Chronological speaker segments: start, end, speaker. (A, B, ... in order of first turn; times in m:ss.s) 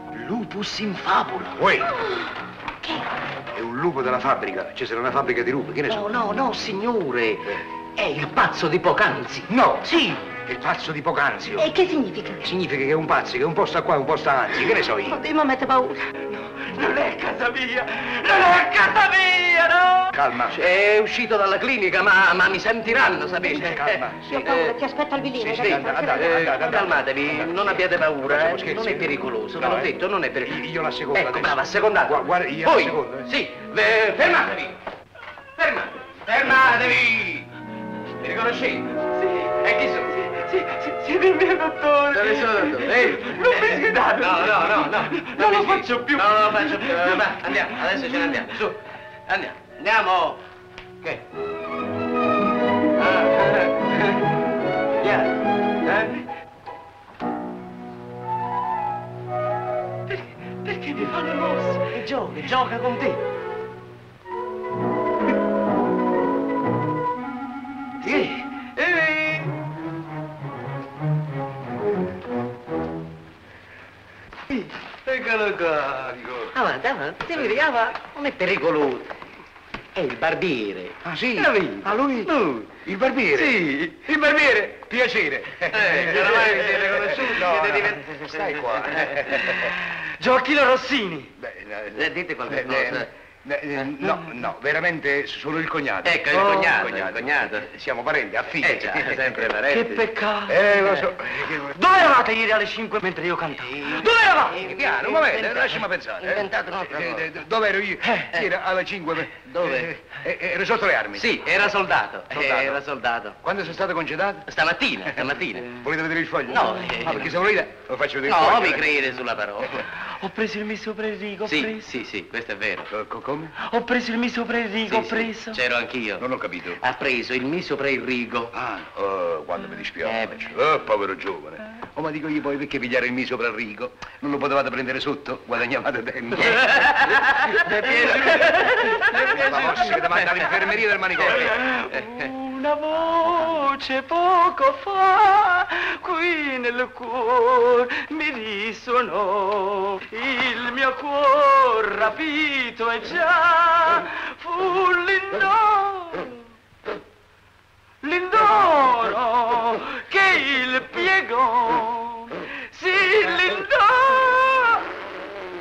0:00.1-0:01.7 A
0:01.6-0:01.9 B
0:02.0-0:02.3 C
0:03.5-0:06.1 B
0:05.9-0:09.5 A
0:09.5-0:11.7 B
0:11.6-0:12.5 C
0:12.4-0:15.2 B
0:14.9-0:16.0 C
0:16.1-0:20.2 D
0:20.1-0:20.6 B
0:20.4-0:24.8 A
0:23.4-0:24.5 B
0:24.3-0:26.3 C
0:25.3-0:33.3 B
0:25.5-0:34.8 A
0:35.6-0:37.4 A
0:36.6-0:37.0 B
0:38.2-0:39.0 A
0:38.9-0:48.3 D
0:39.6-0:40.2 A
0:42.1-0:50.4 A
0:53.0-0:54.2 A
0:55.0-0:55.3 A
0:55.8-0:56.2 A
1:00.1-1:02.8 D
1:01.9-1:03.2 A
1:08.0-1:09.5 D
1:08.0-1:08.4 A
1:15.0-1:19.1 A
1:15.9-1:16.6 B
1:19.9-1:21.0 A
1:21.0-1:29.8 B
1:21.4-1:21.9 D
1:22.2-1:22.8 A
1:23.4-1:24.1 A
1:25.6-1:29.5 A
1:29.3-1:31.3 D
1:31.4-1:39.6 B
1:31.9-1:33.1 A
1:36.0-1:37.7 A
1:36.4-1:36.6 D
1:38.6-1:40.0 A
1:39.7-1:40.7 D
1:40.5-1:41.8 B
1:40.8-1:41.0 A
1:41.4-1:44.5 D
1:43.6-1:47.4 A
1:44.0-1:51.3 B
1:48.2-1:48.5 A
1:49.3-1:50.0 A
1:51.1-1:53.4 A
1:52.3-1:52.8 B
1:53.4-1:54.5 B
1:54.5-1:55.8 A
1:55.1-1:59.0 B
1:56.5-1:57.3 A
1:58.2-1:59.9 A
1:59.9-2:02.0 D
2:01.4-2:02.9 A
2:02.9-2:03.6 B
2:03.6-2:05.6 D
2:04.8-2:08.5 A
2:06.2-2:06.8 B
2:08.5-2:17.1 B
2:10.0-2:10.6 A
2:16.4-2:20.5 A
2:17.3-2:36.5 D
2:19.3-2:21.7 B
2:21.9-2:22.3 A
2:38.0-2:44.9 D